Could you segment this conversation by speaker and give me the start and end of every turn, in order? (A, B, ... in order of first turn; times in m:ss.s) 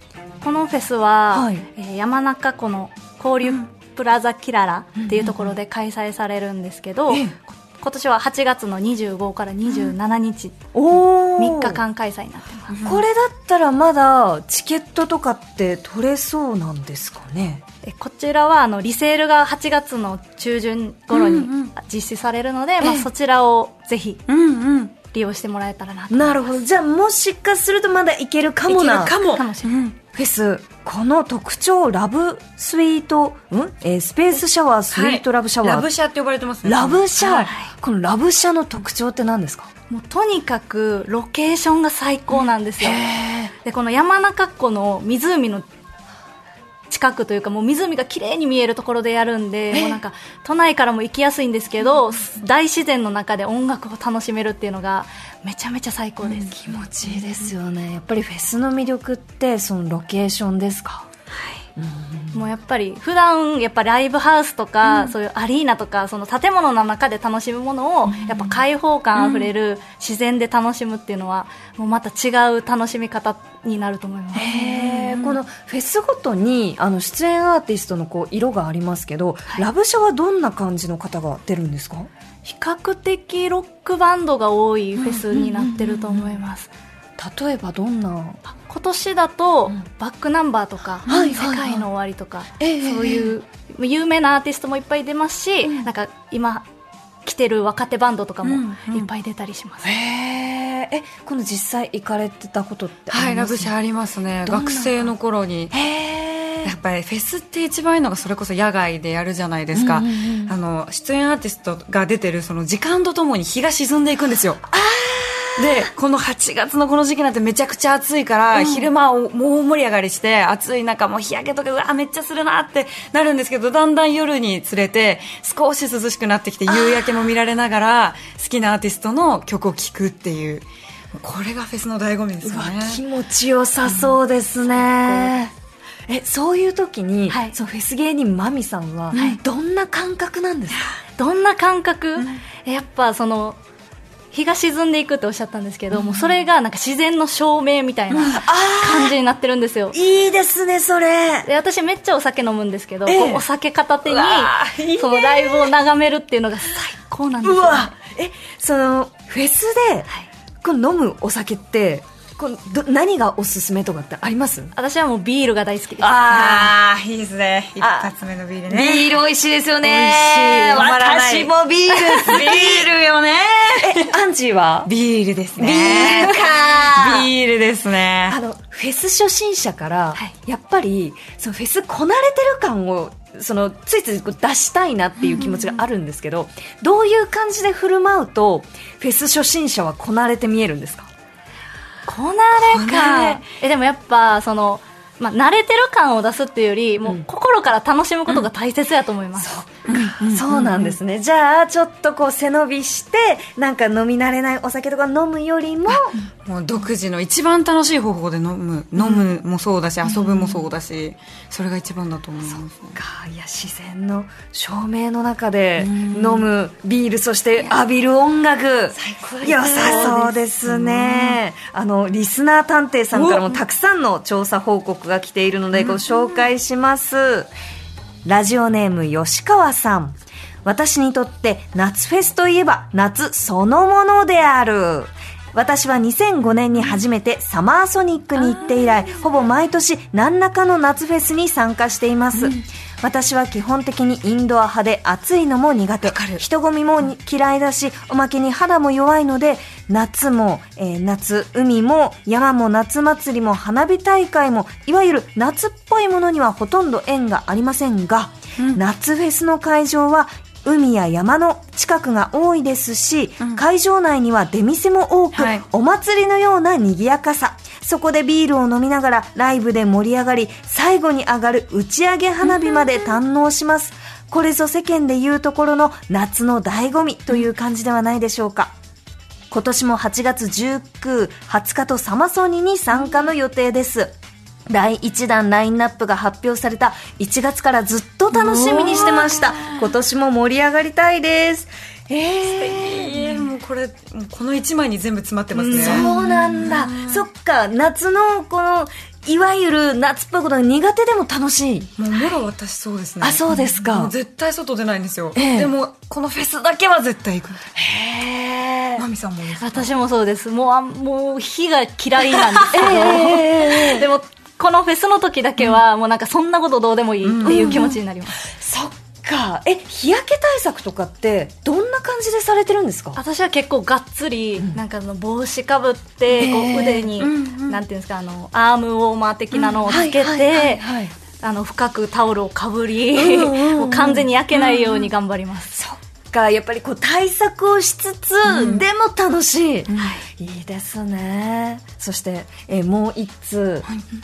0:00.4-0:10.6 A
0:01.3-0:01.7 B
0:05.0-0:05.5 B
0:07.1-0:07.4 B
0:10.7-0:11.8 B
0:11.4-0:12.8 A
0:12.7-0:13.0 C
0:12.8-0:17.6 B
0:17.8-0:24.2 A
0:21.1-0:21.7 C
0:22.8-0:23.1 B
0:24.3-0:24.9 C
0:25.1-0:26.6 A
0:26.1-0:29.2 B
0:28.7-0:30.0 C
0:29.3-0:29.8 A
0:30.1-0:35.9 B
0:34.9-0:37.5 C
0:36.6-0:39.7 B
0:37.3-0:37.7 A
0:39.9-0:45.7 A
0:42.8-0:43.5 B
0:46.9-0:56.8 A
0:49.7-0:50.0 B
0:56.3-1:01.1 B
1:01.8-1:02.4 B
1:02.3-1:14.8 A
1:08.1-1:08.5 B
1:09.2-1:09.5 C
1:14.3-1:22.1 B
1:14.8-1:15.4 C
1:22.4-1:26.7 A
1:25.0-1:26.4 B
1:27.2-1:28.4 B
1:28.5-1:36.6 A
1:31.1-1:31.9 B
1:32.6-1:33.3 B
1:37.2-1:39.9 A
1:38.4-1:39.1 C
1:39.8-1:43.7 B
1:43.1-1:45.8 C
1:44.4-1:45.1 B
1:45.7-1:46.7 B
1:46.6-1:54.6 C
1:49.7-1:50.5 B
1:54.7-1:55.9 B
1:55.6-2:13.0 C
1:58.5-1:58.9 B
2:06.7-2:07.3 B
2:12.4-2:15.5 B
2:14.8-2:15.3 A
2:16.1-2:20.9 B
2:17.3-2:17.6 A
2:19.1-2:19.4 A
2:21.2-2:23.6 A
2:24.3-2:30.0 A
2:28.2-2:29.2 B
2:29.9-2:31.5 B
2:31.4-2:37.9 A
2:33.1-2:33.4 B
2:34.1-2:35.0 C
2:34.7-2:35.7 B
2:37.4-2:40.1 B
2:40.6-2:44.7 B
2:44.7-2:46.4 A
2:46.0-2:46.8 B
2:46.2-2:49.1 C
2:47.8-2:48.1 B
2:48.7-2:52.9 B
2:49.8-2:54.1 C
2:53.7-2:54.9 B
2:54.9-2:58.4 C
2:55.6-2:57.3 B
2:58.3-3:11.1 B
3:05.2-3:05.5 C
3:12.1-3:19.6 A
3:12.7-3:13.4 C
3:19.4-3:26.2 B
3:19.9-3:21.0 C
3:25.9-3:33.0 C
3:29.0-3:29.3 B
3:30.0-3:30.7 B
3:32.5-3:47.5 B
3:35.8-3:36.5 C
3:39.0-3:41.4 C
3:39.2-3:40.4 A
3:43.1-3:43.6 C
3:45.8-3:46.5 C
3:48.2-4:38.7 B
3:58.4-3:59.2 C
4:06.0-4:06.4 C
4:25.3-4:25.6 C
4:32.5-4:32.8 C
4:39.5-4:44.1 B
4:44.7-4:53.5 B
4:48.3-4:49.9 C
4:52.4-4:57.3 C
4:55.6-4:56.1 A
4:55.7-5:01.9 B
5:02.0-5:07.7 C
5:03.2-5:04.1 B
5:05.4-5:05.7 B
5:07.8-5:09.0 B
5:09.0-5:09.9 C
5:09.6-5:18.4 A
5:12.3-5:13.3 C
5:12.7-5:14.1 B
5:17.2-5:18.0 C
5:17.4-5:23.2 B
5:23.2-5:30.9 A
5:26.3-5:27.2 B
5:27.2-5:27.8 C
5:29.6-5:30.0 C
5:29.9-5:31.1 B
5:31.4-5:35.8 A
5:33.1-5:34.3 B
5:34.5-5:35.0 C
5:35.7-5:43.9 B
5:38.4-5:38.8 C
5:39.9-5:40.2 C